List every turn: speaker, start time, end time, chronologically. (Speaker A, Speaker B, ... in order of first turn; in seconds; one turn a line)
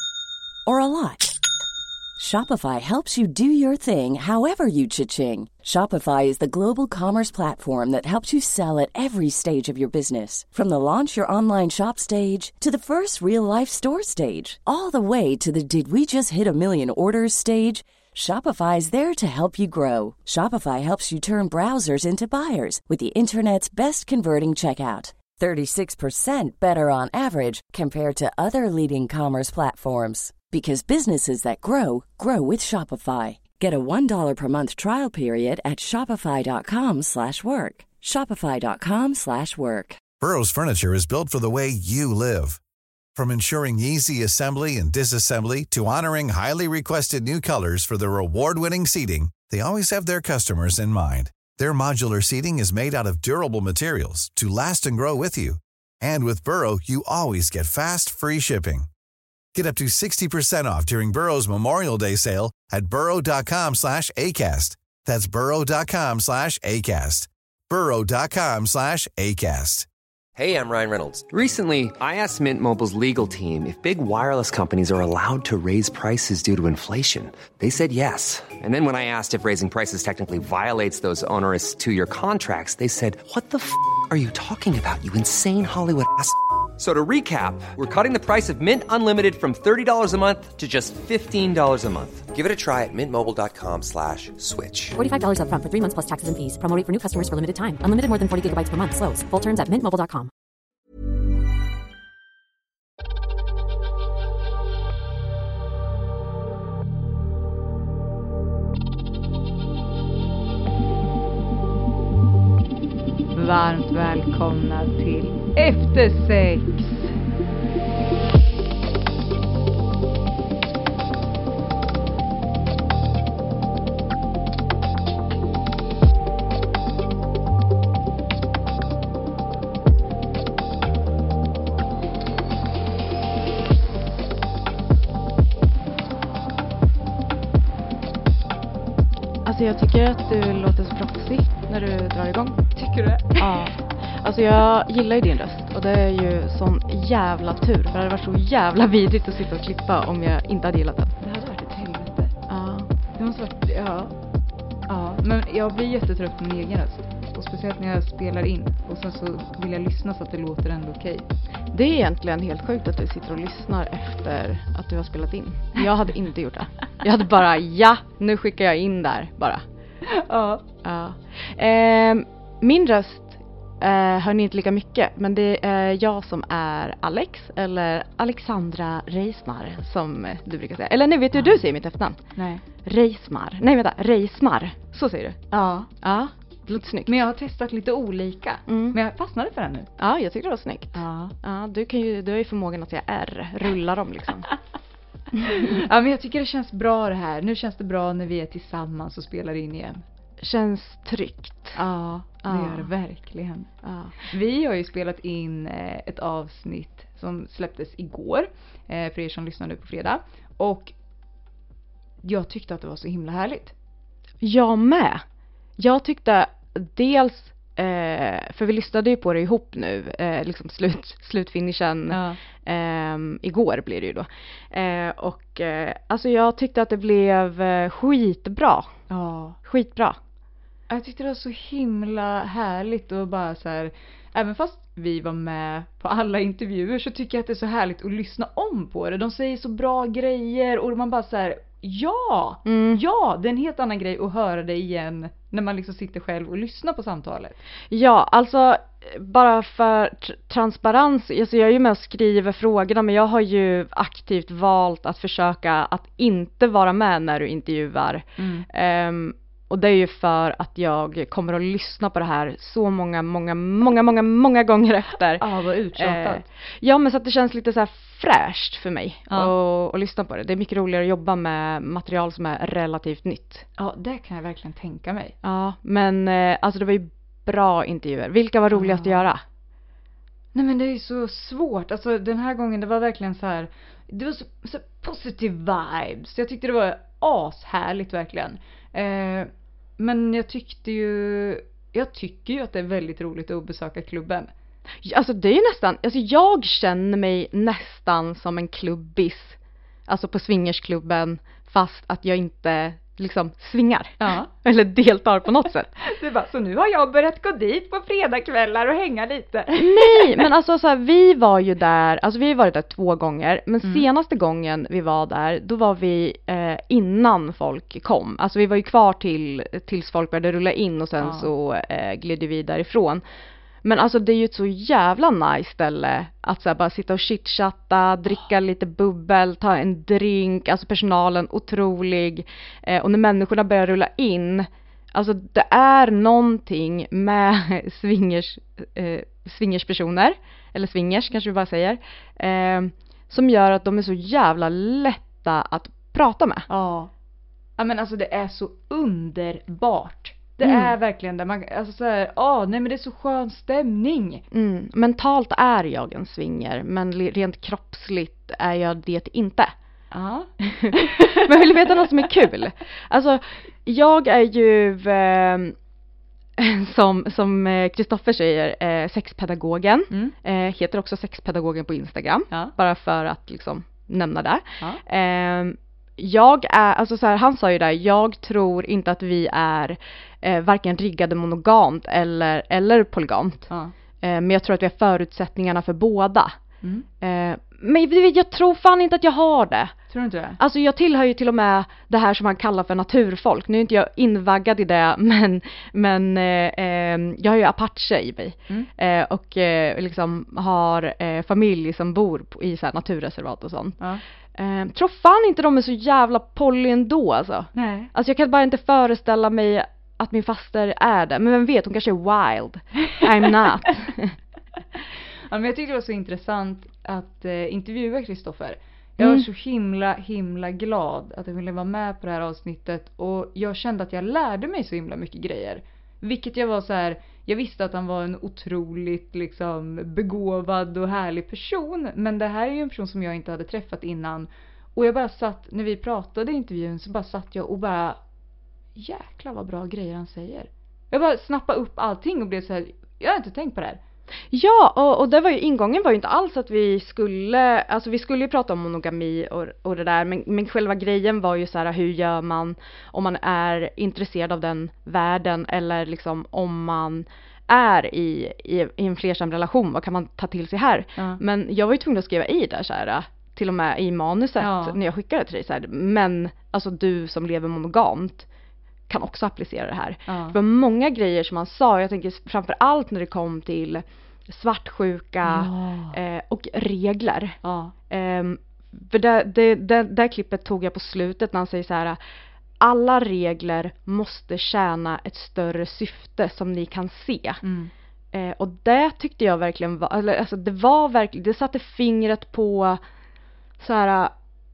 Speaker A: 0.7-1.3
Speaker A: 2.2-40.0
Speaker B: 40.2-42.6
Speaker B: 43.2-58.9
Speaker B: 59.5-69.9
Speaker C: 70.4-95.0
Speaker D: 95.0-100.3
Speaker E: 113.3-117.1
Speaker F: 139.4-142.7
Speaker E: 142.8-143.6
Speaker F: 143.4-151.2
Speaker E: 151.2-152.3
Speaker F: 152.5-152.9
Speaker E: 153.2-154.1
Speaker E: 154.9-161.2
Speaker F: 161.7-169.6
Speaker E: 170.1-170.6
Speaker F: 170.8-182.2
Speaker E: 182.4-182.6
Speaker F: 182.8-185.4
Speaker E: 185.5-185.9
Speaker F: 186.0-187.2
Speaker E: 187.1-189.9
Speaker F: 188.7-189.0
Speaker F: 190.0-194.5
Speaker E: 190.9-191.3
Speaker F: 195.3-195.7
Speaker E: 195.4-200.0
Speaker F: 200.4-201.8
Speaker E: 201.8-203.7
Speaker F: 202.4-202.9
Speaker F: 203.8-204.2
Speaker E: 204.2-210.9
Speaker E: 212.2-213.7
Speaker F: 214.4-215.2
Speaker F: 215.8-229.0
Speaker E: 222.1-222.4
Speaker E: 229.1-229.6
Speaker F: 229.7-230.2
Speaker E: 230.9-247.6
Speaker F: 242.7-243.0
Speaker F: 247.9-273.6
Speaker E: 258.4-258.6
Speaker E: 265.4-266.4
Speaker E: 273.8-275.3
Speaker F: 275.4-279.4
Speaker E: 278.7-279.3
Speaker E: 280.5-294.5
Speaker F: 295.0-305.9
Speaker E: 304.2-304.5
Speaker E: 306.0-310.5
Speaker F: 309.8-323.2
Speaker E: 313.8-314.1
Speaker E: 321.2-321.5
Speaker F: 323.8-346.7
Speaker E: 346.7-347.1
Speaker E: 347.8-354.4
Speaker F: 350.6-350.9
Speaker F: 354.5-359.7
Speaker E: 360.1-362.1
Speaker F: 360.7-365.8
Speaker F: 366.6-383.7
Speaker F: 384.2-386.6
Speaker E: 386.8-387.1
Speaker F: 387.2-389.9
Speaker E: 390.1-390.6
Speaker F: 390.6-404.0
Speaker F: 404.5-414.4
Speaker E: 407.8-408.1
Speaker E: 415.5-438.2
Speaker F: 419.2-419.4
Speaker E: 438.9-444.0
Speaker F: 444.5-468.5
Speaker E: 464.6-465.0
Speaker F: 469.1-477.6
Speaker E: 470.3-470.6
Speaker E: 475.4-476.2
Speaker E: 477.6-477.9
Speaker F: 478.1-482.2
Speaker F: 482.8-487.6
Speaker E: 487.6-487.9
Speaker F: 488.3-493.0
Speaker F: 493.8-494.3